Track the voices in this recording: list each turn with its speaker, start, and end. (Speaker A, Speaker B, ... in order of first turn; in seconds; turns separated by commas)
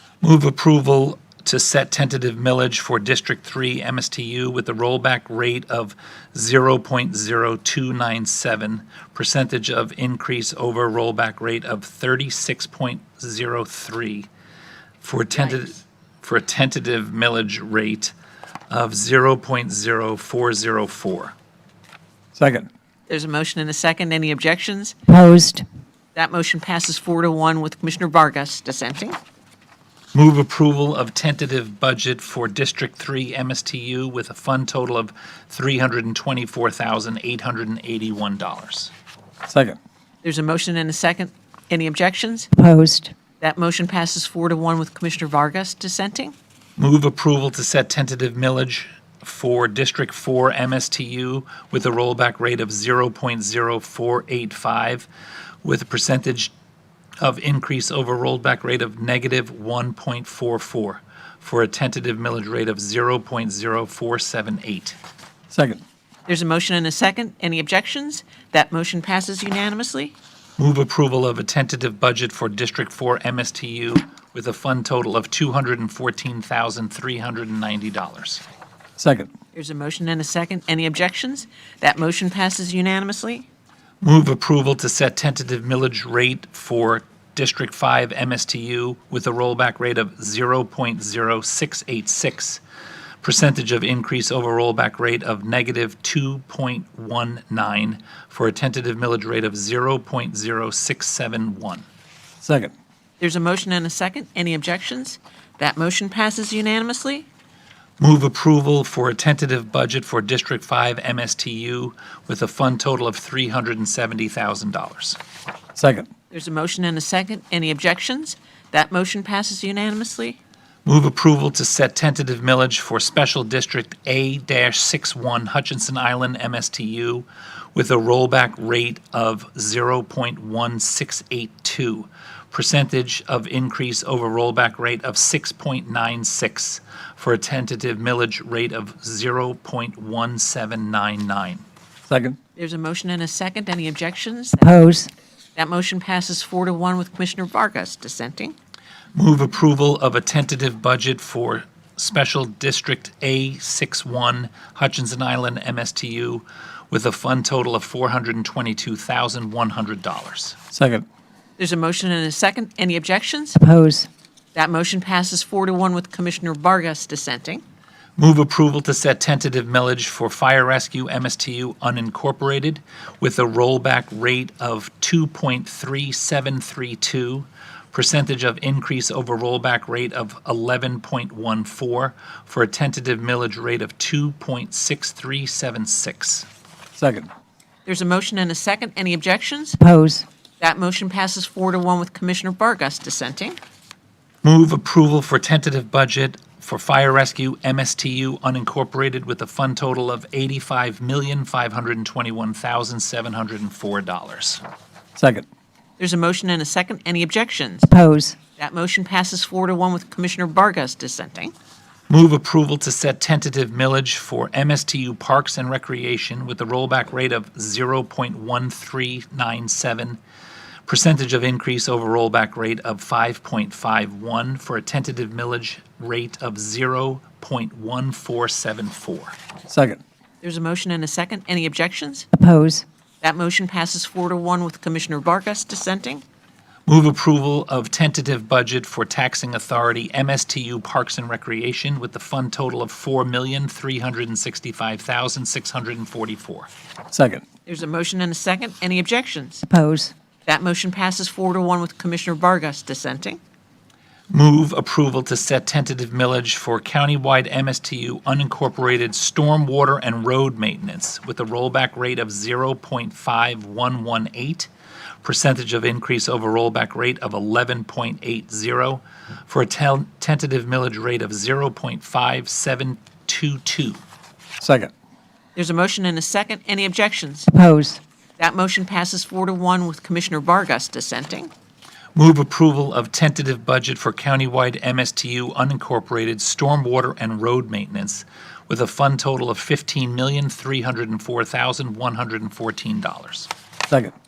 Speaker A: 0.2-14.3, Speaker A: 15.0-18.1, Speaker A: 18.7-21.3, Speaker B: 22.4-22.7, Speaker C: 23.1-25.0, Speaker D: 25.1-25.6, Speaker C: 26.1-29.2, Speaker A: 30.1-38.9, Speaker B: 39.5-39.8, Speaker C: 40.2-42.5, Speaker D: 42.6-43.1, Speaker C: 43.4-46.4, Speaker A: 46.8-55.1, Speaker A: 55.6-56.5, Speaker A: 57.2-65.0, Speaker B: 65.5-65.8, Speaker C: 66.3-70.2, Speaker A: 70.6-78.4, Speaker B: 79.0-79.3, Speaker C: 79.5-83.5, Speaker A: 84.0-92.6, Speaker A: 93.2-101.8, Speaker B: 102.4-102.7, Speaker C: 103.2-107.3, Speaker A: 108.0-115.2, Speaker B: 115.8-116.1, Speaker C: 116.3-120.4, Speaker A: 120.9-141.6, Speaker B: 142.1-142.4, Speaker C: 142.6-144.8, Speaker D: 144.6-145.1, Speaker C: 145.6-148.6, Speaker A: 149.2-160.6, Speaker B: 160.7-161.1, Speaker C: 161.6-163.6, Speaker D: 163.6-164.1, Speaker C: 164.6-167.6, Speaker A: 168.2-186.5, Speaker B: 187.0-187.3, Speaker C: 187.8-189.8, Speaker D: 189.8-190.2, Speaker C: 190.6-193.6, Speaker A: 194.4-204.6, Speaker B: 205.2-205.5, Speaker C: 206.0-207.9, Speaker D: 207.9-208.4, Speaker C: 208.6-211.5, Speaker A: 212.1-220.2, Speaker A: 220.9-229.3, Speaker B: 229.7-230.0, Speaker C: 230.4-232.3, Speaker D: 232.3-232.8, Speaker C: 233.2-236.2, Speaker A: 236.9-246.7, Speaker B: 247.1-247.4, Speaker C: 247.7-249.7, Speaker D: 249.7-250.1, Speaker C: 250.5-253.4, Speaker A: 254.3-264.7, Speaker A: 265.2-274.0, Speaker B: 274.6-274.9, Speaker C: 275.6-277.5, Speaker D: 277.5-278.0, Speaker C: 278.4-281.5, Speaker A: 282.1-293.5